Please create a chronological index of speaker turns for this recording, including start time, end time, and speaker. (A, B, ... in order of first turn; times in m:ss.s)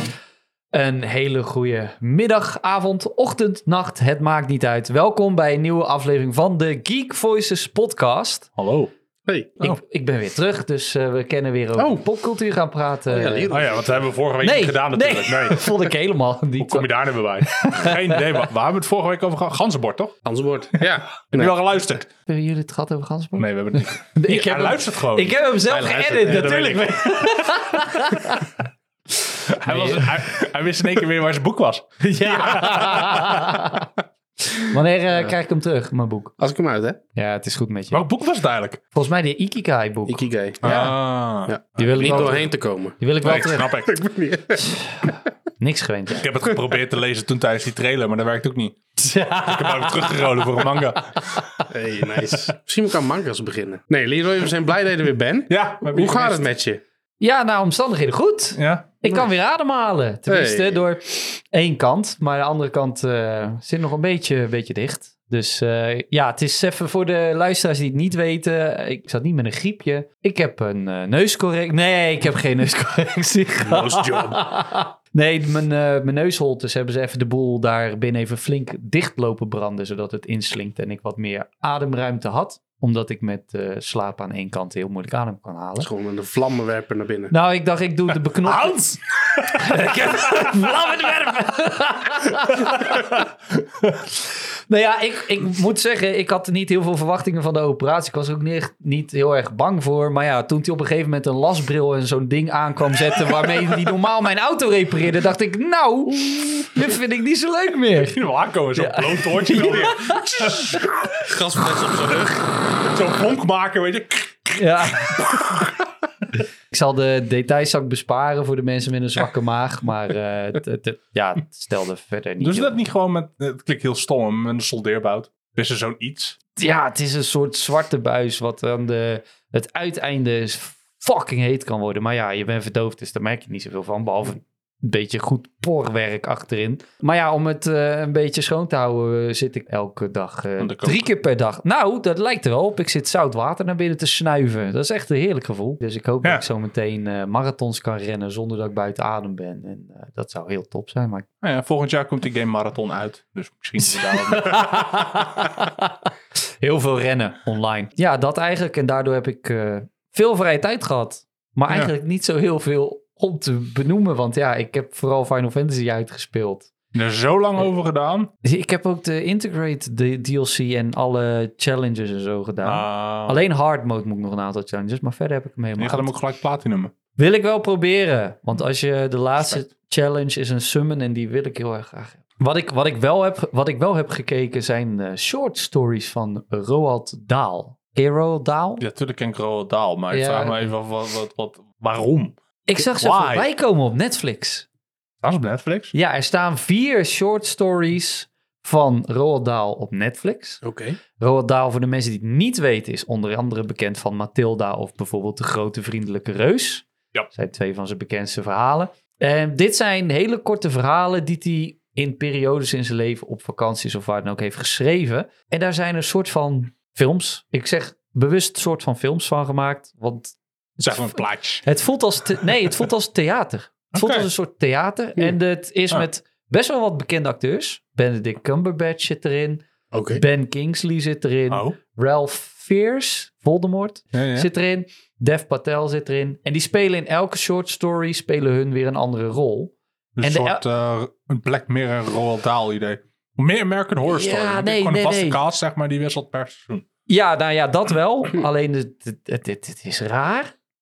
0:00.7-0:08.5 A
0:08.6-0:08.9 B
0:09.2-0:09.6 C
0:09.6-0:13.5 A
0:11.8-0:12.1 C
0:13.1-0:14.1 C
0:13.5-0:15.8 B
0:14.4-0:16.9 A
0:16.6-0:20.2 B
0:17.4-0:18.4 A
0:20.2-0:21.5 C
0:20.8-0:22.1 B
0:22.2-0:28.5 A
0:23.4-0:27.8 B
0:29.5-0:33.5 B
0:29.6-0:30.4 A
0:32.0-0:33.9 A
0:34.5-0:36.3 A
0:36.4-0:37.0 C
0:37.1-0:38.0 A
0:37.9-0:38.8 B
0:38.9-0:40.9 A
0:40.1-0:40.9 C
0:40.6-0:42.5 B
0:41.4-0:44.7 C
0:41.8-0:42.5 A
0:43.0-0:43.7 A
0:43.2-0:44.0 B
0:44.6-0:46.3 A
0:46.1-0:48.8 B
0:49.0-0:50.3 A
0:49.3-0:51.4 B
0:51.7-0:56.8 C
0:55.5-0:56.4 B
0:57.2-1:25.9 A
0:58.6-0:58.9 B
1:00.3-1:00.8 C
1:13.6-1:14.4 B
1:25.8-1:27.3 C
1:27.3-1:28.8 A
1:28.4-1:30.5 B
1:29.5-1:33.3 A
1:34.3-1:48.2 A
1:48.0-1:51.3 B
1:48.8-1:50.8 A
1:51.2-1:52.5 C
1:52.1-1:55.7 B
1:54.5-1:55.3 A
1:56.7-2:02.8 A
2:02.4-2:06.4 B
2:06.6-2:31.2 A
2:20.6-2:21.1 B
2:31.4-2:35.0 B
2:33.9-2:35.9 A
2:36.6-2:46.7 A
2:46.9-2:48.3 B
2:48.4-2:56.1 A
2:52.6-2:53.4 B
2:55.8-2:56.9 B
2:57.2-3:08.8 A
3:08.8-3:13.4 B
3:10.1-3:10.6 A
3:12.7-3:14.6 A
3:15.2-3:15.9 B
3:15.9-3:20.6 A
3:20.6-3:21.0 C
3:21.2-4:00.6 A
3:40.8-3:41.6 B
3:43.9-3:44.3 B
3:49.9-3:50.2 C
3:51.5-3:51.8 B
3:54.1-3:54.5 B
4:00.2-4:06.8 B
4:04.0-4:05.4 A
4:07.1-4:10.5 A